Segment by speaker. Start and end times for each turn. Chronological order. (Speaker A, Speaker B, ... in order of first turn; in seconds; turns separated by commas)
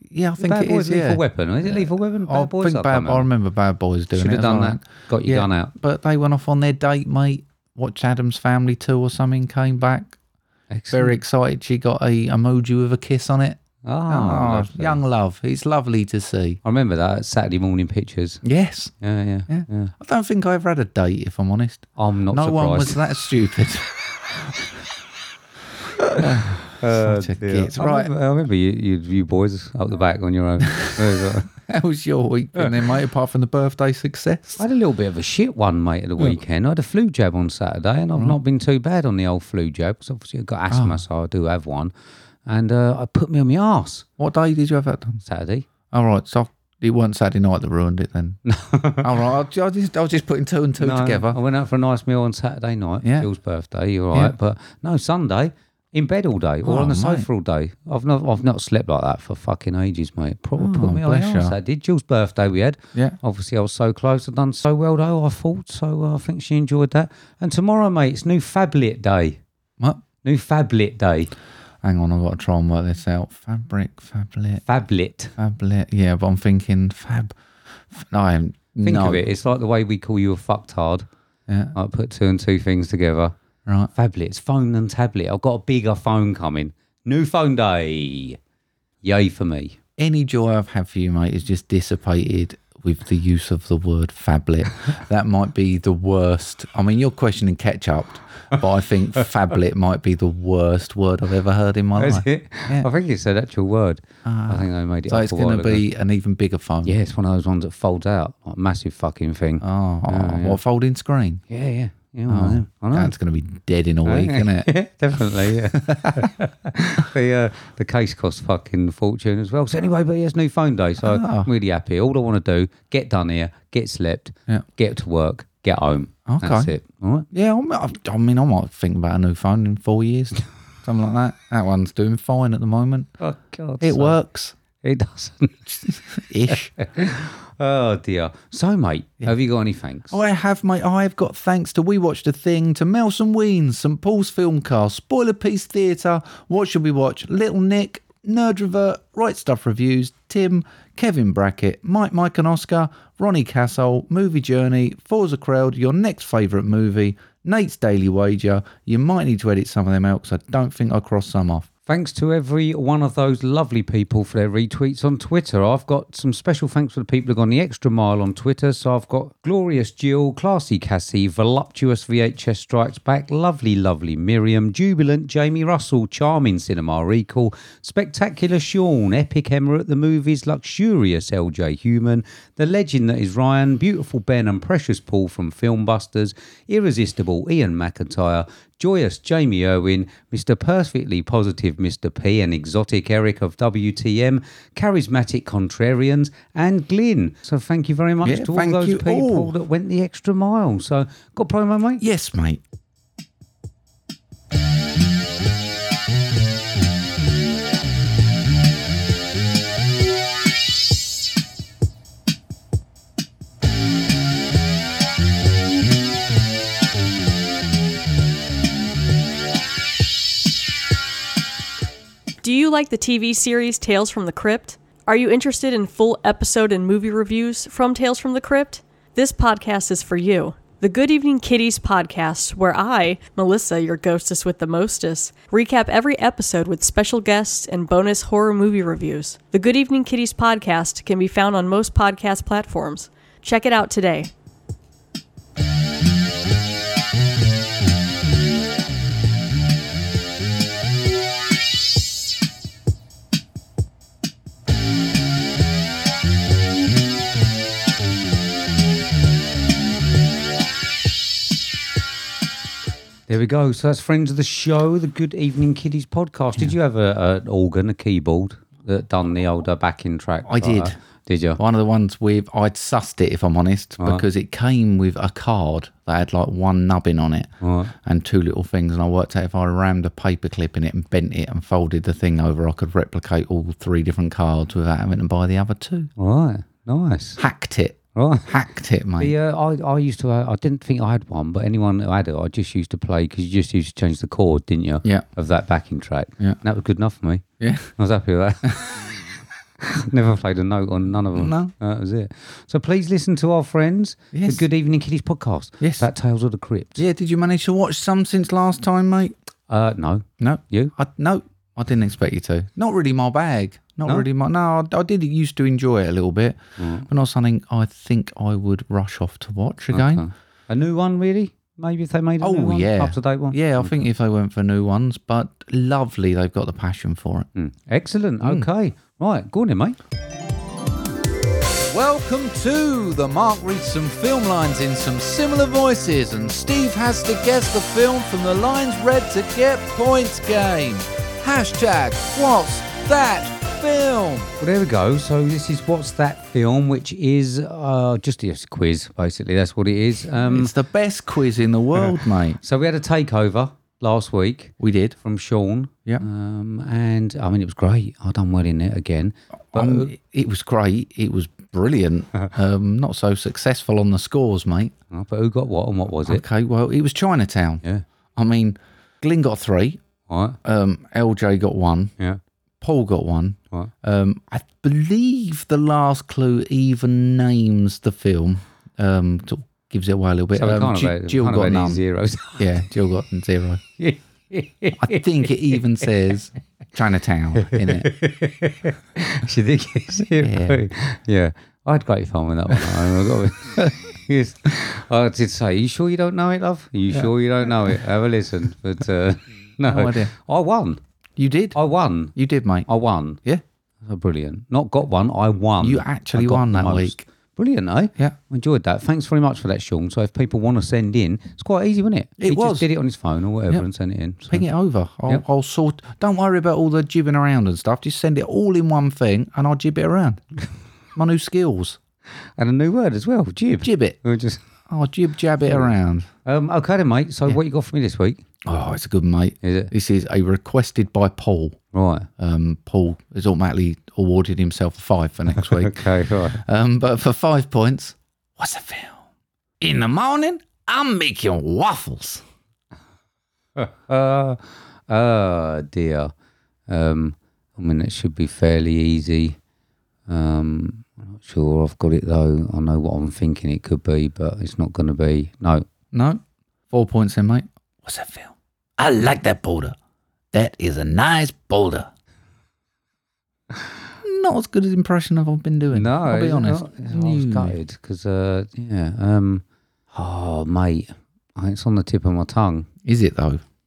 Speaker A: 0.1-10.2, Speaker B: 0.4-3.3, Speaker B: 4.1-5.7, Speaker B: 10.7-11.2, Speaker A: 10.9-16.6, Speaker B: 13.8-15.0, Speaker B: 16.6-18.4, Speaker A: 18.4-18.9, Speaker B: 19.0-19.9, Speaker A: 19.5-24.6, Speaker B: 22.0-23.0, Speaker A: 26.1-28.1, Speaker B: 26.8-31.5, Speaker A: 31.6-34.6, Speaker B: 34.6-41.9, Speaker A: 40.7-41.0, Speaker B: 42.5-44.0, Speaker A: 44.2-45.2, Speaker B: 45.2-45.7, Speaker A: 45.9-48.4, Speaker B: 48.5-49.1, Speaker A: 49.0-51.4, Speaker B: 50.8-69.4, Speaker A: 53.0-53.3, Speaker A: 56.6-57.3, Speaker A: 60.6-61.5, Speaker B: 70.2-71.3, Speaker A: 71.8-74.6, Speaker B: 74.6-75.3, Speaker A: 75.4-77.3, Speaker A: 77.9-79.2, Speaker B: 78.8-81.1, Speaker A: 81.5-81.7, Speaker B: 81.7-83.3, Speaker B: 84.0-88.4, Speaker B: 89.0-89.8, Speaker A: 90.0-102.9, Speaker B: 102.0-105.9, Speaker A: 104.2-106.9, Speaker B: 106.8-110.6, Speaker A: 109.6-111.4, Speaker B: 111.5-113.2, Speaker A: 112.3-114.7, Speaker B: 114.1-127.3, Speaker A: 115.7-116.3, Speaker A: 121.0-121.5, Speaker A: 126.3-126.8, Speaker A: 127.3-133.1, Speaker B: 133.2-134.2, Speaker A: 133.8-134.6, Speaker B: 134.8-135.7, Speaker A: 135.9-136.8, Speaker B: 136.5-140.2, Speaker A: 140.1-161.7, Speaker B: 161.9-202.0, Speaker A: 198.2-199.5, Speaker A: 202.0-202.6, Speaker C: 222.4-244.3, Speaker B: 263.3-271.6, Speaker A: 270.5-270.9, Speaker A: 271.6-277.5, Speaker B: 274.0-274.2, Speaker B: 277.6-277.9, Speaker A: 278.1-286.1, Speaker B: 286.2-287.4, Speaker A: 287.4-289.3, Speaker B: 288.1-288.5, Speaker B: 289.2-297.4, Speaker A: 297.6-297.9, Speaker B: 298.0-299.0, Speaker B: 299.8-307.0, Speaker A: 301.4-301.7, Speaker A: 304.3-304.6, Speaker A: 305.8-306.1, Speaker A: 307.0-309.3, Speaker B: 309.7-310.9, Speaker A: 310.4-320.2, Speaker B: 316.8-317.1, Speaker B: 319.9-324.0, Speaker A: 322.4-327.5, Speaker B: 327.6-330.0, Speaker A: 328.4-328.7, Speaker A: 331.9-344.6, Speaker B: 344.6-350.7, Speaker A: 350.5-352.6, Speaker B: 352.6-360.1, Speaker A: 354.8-355.2, Speaker A: 359.7-364.9, Speaker B: 365.1-366.4, Speaker A: 366.3-367.8, Speaker A: 368.4-370.0, Speaker B: 370.3-370.6, Speaker A: 370.6-372.1, Speaker A: 372.8-382.0, Speaker B: 380.6-382.6, Speaker A: 382.6-383.8, Speaker B: 384.0-386.0, Speaker A: 385.0-388.1, Speaker B: 387.6-401.0, Speaker A: 390.4-390.8, Speaker A: 399.9-400.3, Speaker A: 401.4-401.8, Speaker B: 401.8-402.3, Speaker A: 402.4-402.9, Speaker B: 402.9-403.4, Speaker B: 404.0-414.7, Speaker A: 405.8-407.2, Speaker A: 412.4-412.9, Speaker A: 414.5-420.4, Speaker A: 421.1-422.0, Speaker B: 422.6-424.6, Speaker A: 423.8-424.2, Speaker A: 424.9-426.3, Speaker B: 426.5-428.4, Speaker A: 428.7-431.8, Speaker B: 429.6-429.9, Speaker B: 431.9-432.3, Speaker A: 432.4-439.2, Speaker B: 435.6-436.6, Speaker A: 439.8-442.4, Speaker B: 443.8-446.3, Speaker B: 446.9-449.6, Speaker B: 450.3-455.9, Speaker A: 456.1-456.4, Speaker A: 456.9-460.0, Speaker A: 460.5-462.1, Speaker A: 464.2-467.8, Speaker B: 465.9-472.9, Speaker A: 473.1-473.6